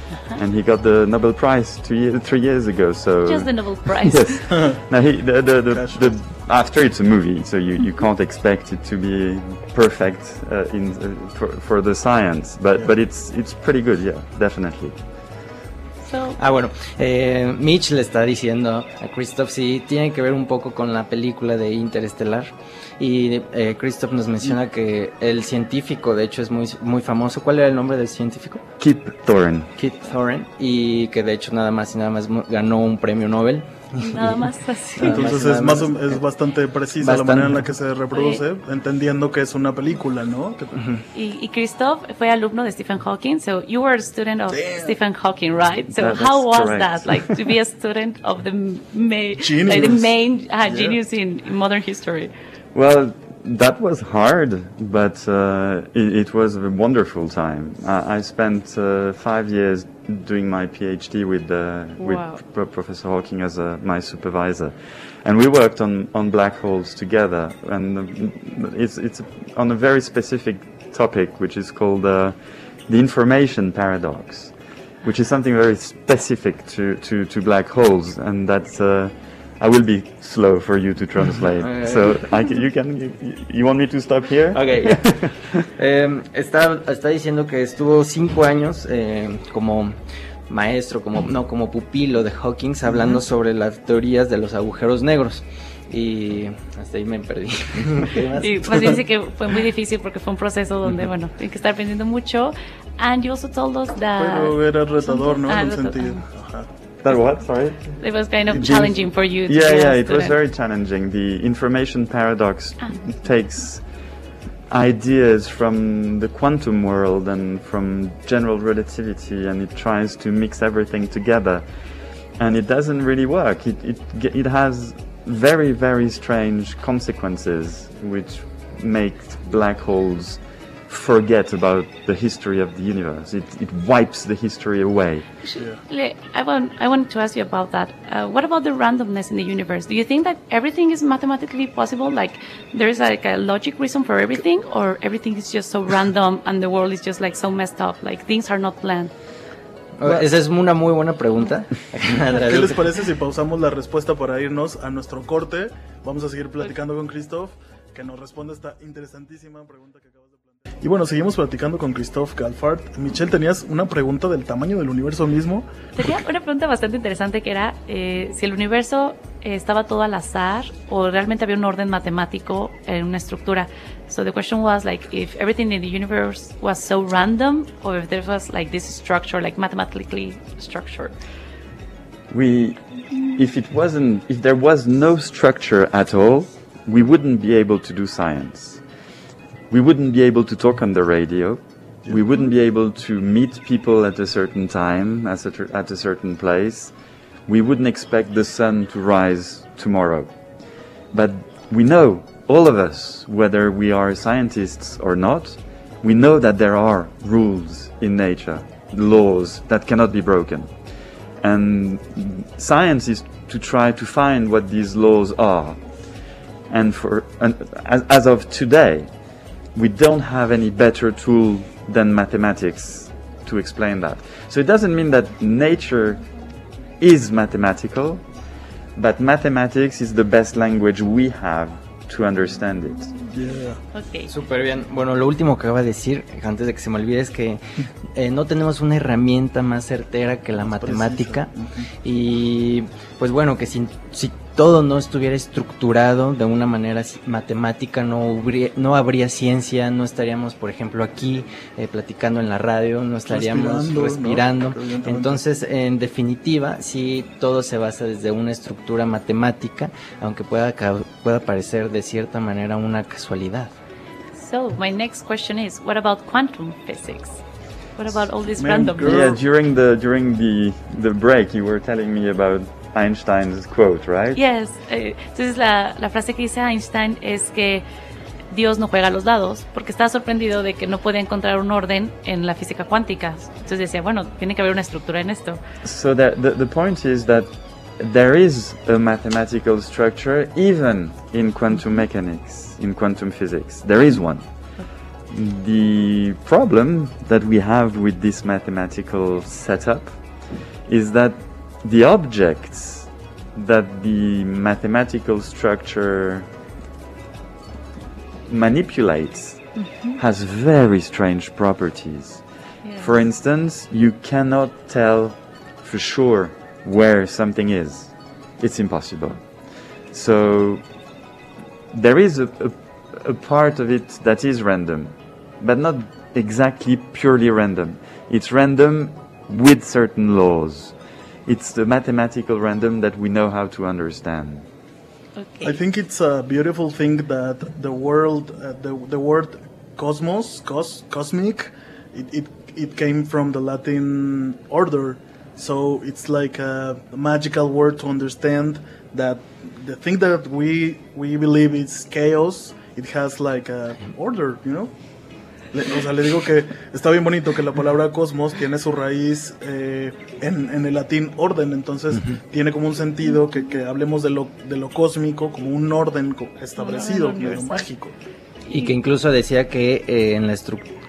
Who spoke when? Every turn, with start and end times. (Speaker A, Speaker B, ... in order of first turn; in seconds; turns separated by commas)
Speaker A: 0.3-15.0, Speaker B: 3.2-4.5, Speaker C: 5.7-6.1, Speaker B: 16.0-16.4, Speaker D: 16.4-28.6, Speaker A: 28.8-29.7, Speaker D: 29.8-36.2, Speaker B: 34.0-35.4, Speaker C: 35.0-40.8, Speaker D: 37.0-37.7, Speaker B: 38.1-38.4, Speaker D: 40.8-41.0, Speaker B: 41.1-52.3, Speaker C: 44.5-45.0, Speaker A: 45.9-47.4, Speaker C: 49.4-51.0, Speaker A: 52.7-85.6, Speaker B: 62.0-62.4, Speaker D: 81.6-82.2, Speaker D: 84.5-90.0, Speaker D: 90.5-99.0, Speaker B: 98.4-106.3, Speaker C: 104.2-106.7, Speaker A: 107.0-114.0, Speaker B: 107.9-110.4, Speaker C: 108.5-108.9, Speaker B: 112.8-113.2, Speaker A: 114.7-121.7, Speaker A: 122.4-135.3, Speaker B: 135.4-149.1, Speaker D: 150.0-152.9, Speaker A: 150.0-150.3, Speaker C: 152.3-165.7, Speaker B: 165.9-181.2, Speaker A: 182.3-188.8, Speaker A: 189.7-196.9, Speaker A: 197.5-200.3, Speaker A: 201.1-210.7, Speaker A: 211.4-216.1, Speaker A: 216.7-226.3, Speaker A: 227.0-228.3, Speaker A: 229.0-233.1, Speaker C: 233.3-233.8, Speaker B: 233.9-234.3, Speaker D: 234.3-237.6, Speaker D: 238.1-241.5, Speaker C: 240.7-241.9, Speaker D: 242.0-263.7, Speaker C: 253.3-255.4, Speaker B: 264.3-269.3, Speaker C: 268.5-269.4, Speaker A: 269.0-274.4, Speaker B: 274.4-277.9, Speaker B: 278.5-285.6, Speaker A: 285.8-300.2, Speaker A: 300.9-306.5, Speaker A: 308.5-312.4, Speaker B: 309.8-310.2, Speaker B: 312.8-313.2, Speaker A: 313.0-320.9, Speaker A: 321.9-334.6, Speaker B: 335.4-335.8, Speaker C: 335.6-355.0, Speaker C: 355.6-368.1, Speaker B: 366.8-367.9, Speaker B: 368.6-368.9, Speaker D: 368.7-370.9